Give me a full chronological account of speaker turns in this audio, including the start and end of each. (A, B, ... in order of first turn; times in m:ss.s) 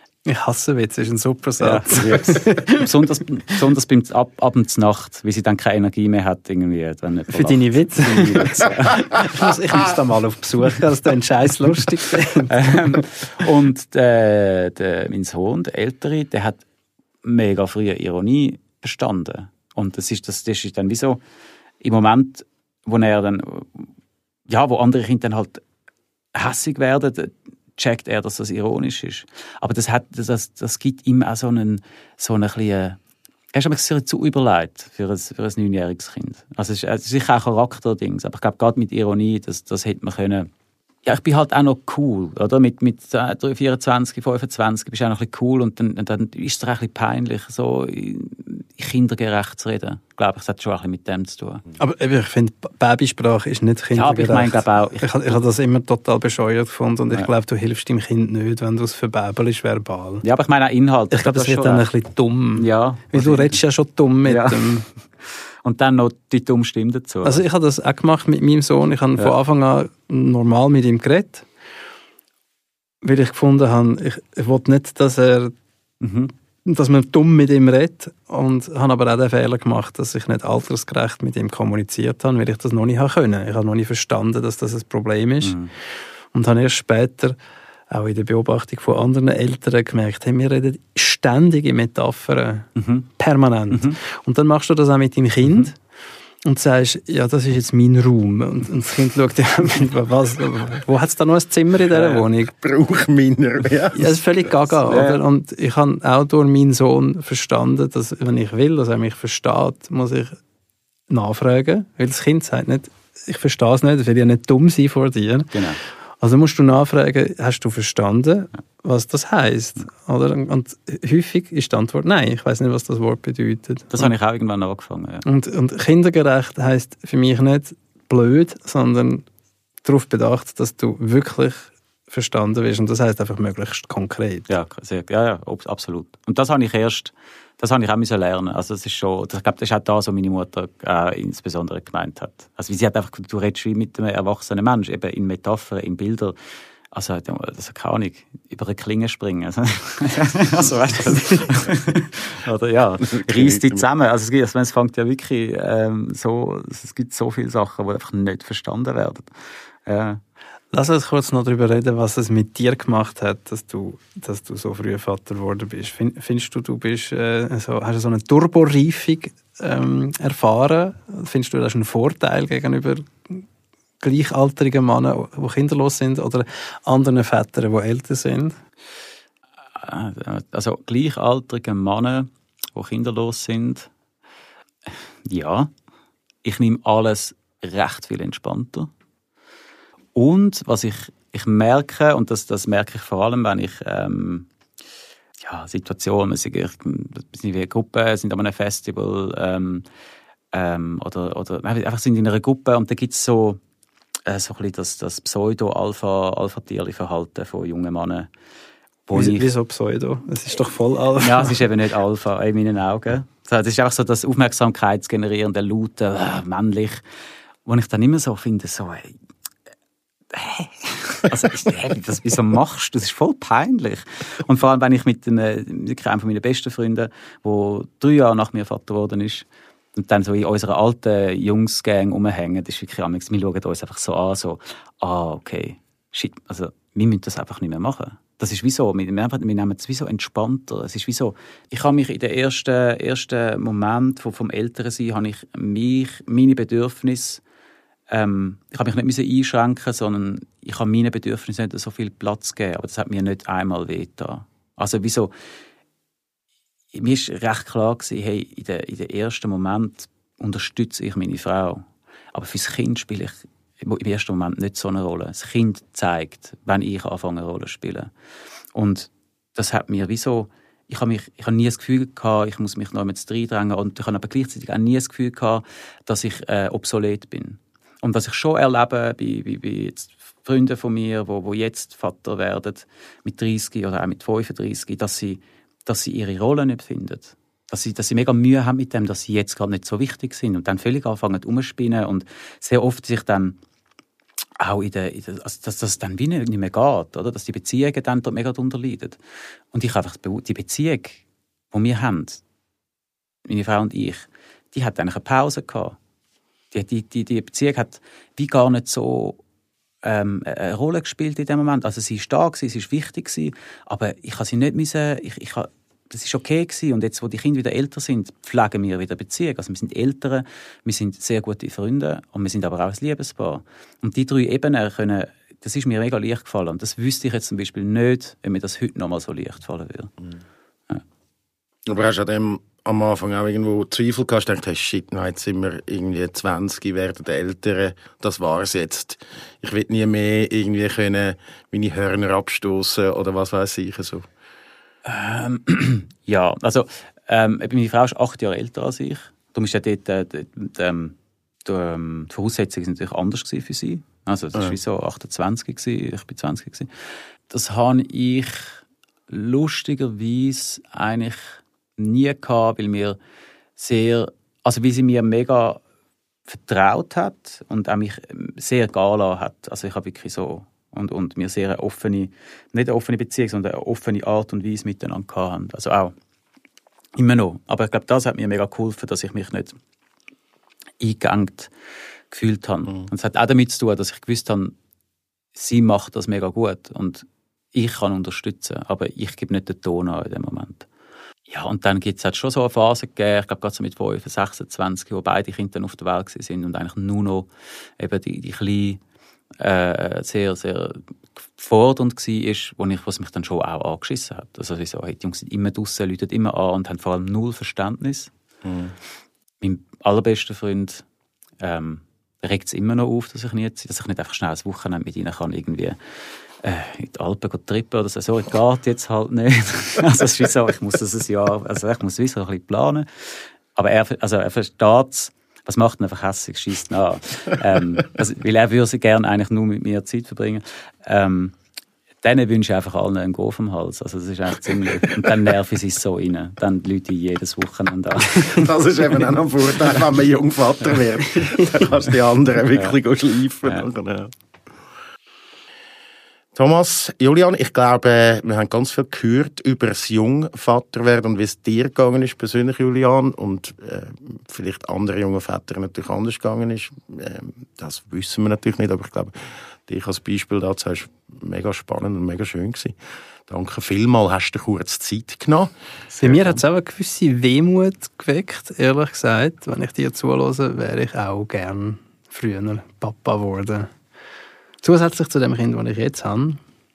0:00.2-0:02.9 A
0:01.6-0:09.4 B
0:07.3-0:13.0 A
0:12.4-0:16.6 B
0:17.2-0:21.2 B
0:21.8-0:23.9 B
0:24.5-0:25.6 B
0:26.3-0:33.0 B
0:33.5-0:40.5 B
0:41.0-0:51.6 B
0:51.8-1:00.2 A
0:53.9-0:55.3 B
1:00.2-1:01.9 B
1:01.1-1:04.9 A
1:02.6-1:03.6 B
1:04.2-1:04.7 B
1:05.2-1:07.4 B
1:07.2-1:11.4 A
1:13.0-1:15.5 A
1:16.0-1:16.3 B
1:16.6-1:25.6 A
1:25.4-1:25.7 B
1:26.3-1:27.4 A
1:27.9-1:35.8 A
1:32.8-1:33.1 B
1:33.7-1:34.0 B
1:35.4-1:35.7 B
1:36.4-1:42.5 A
1:41.9-1:42.2 B
1:42.6-1:44.2 C
1:43.9-1:50.4 A
1:44.8-1:45.2 B
1:51.1-2:04.1 A
1:55.5-1:55.8 B
2:03.9-2:05.2 B
2:05.2-2:09.2 A
2:09.8-2:14.5 A
2:14.5-2:26.4 B
2:26.9-2:39.3 B
2:33.2-2:33.8 C
2:39.8-2:40.2 B
2:40.7-2:53.4 A
2:54.0-2:58.6 A
2:59.8-3:03.9 B
3:05.2-3:05.7 B
3:06.4-3:08.9 B
3:10.1-3:14.5 B
3:15.4-3:19.8 B
3:20.5-3:23.6 B
3:24.3-3:28.3 B
3:29.1-3:29.5 B
3:29.1-3:31.6 A
3:31.2-3:37.0 B
3:37.6-3:39.1 B
3:40.3-4:07.4 B
4:08.1-4:15.3 B
4:16.9-4:28.1 B
4:28.7-4:53.6 B
4:54.6-4:59.2 B
4:59.7-5:02.4 B
5:03.4-5:06.0 B
5:06.7-5:09.4 B
5:10.0-5:30.1 B
5:31.8-5:44.3 C
5:45.0-5:56.9 B
5:57.5-6:03.2 B
6:03.8-6:05.8 B
6:06.5-6:16.1 B
6:17.2-6:19.8 B
6:21.0-6:21.7 B
6:22.3-6:24.7 B
6:25.5-6:30.9 B
6:31.5-6:37.5 B
6:38.0-6:39.0 B
6:39.6-6:48.3 B
6:48.6-6:48.9 C
6:49.6-6:51.0 B
6:51.6-6:56.0 B
6:56.6-7:11.6 B
7:12.2-7:18.7 B
7:18.4-7:24.3 C
7:22.7-7:23.0 B
7:26.5-7:39.4 C
7:39.9-7:43.0 C
7:43.5-7:46.6 C
7:46.2-7:53.9 A
7:54.8-7:56.6 A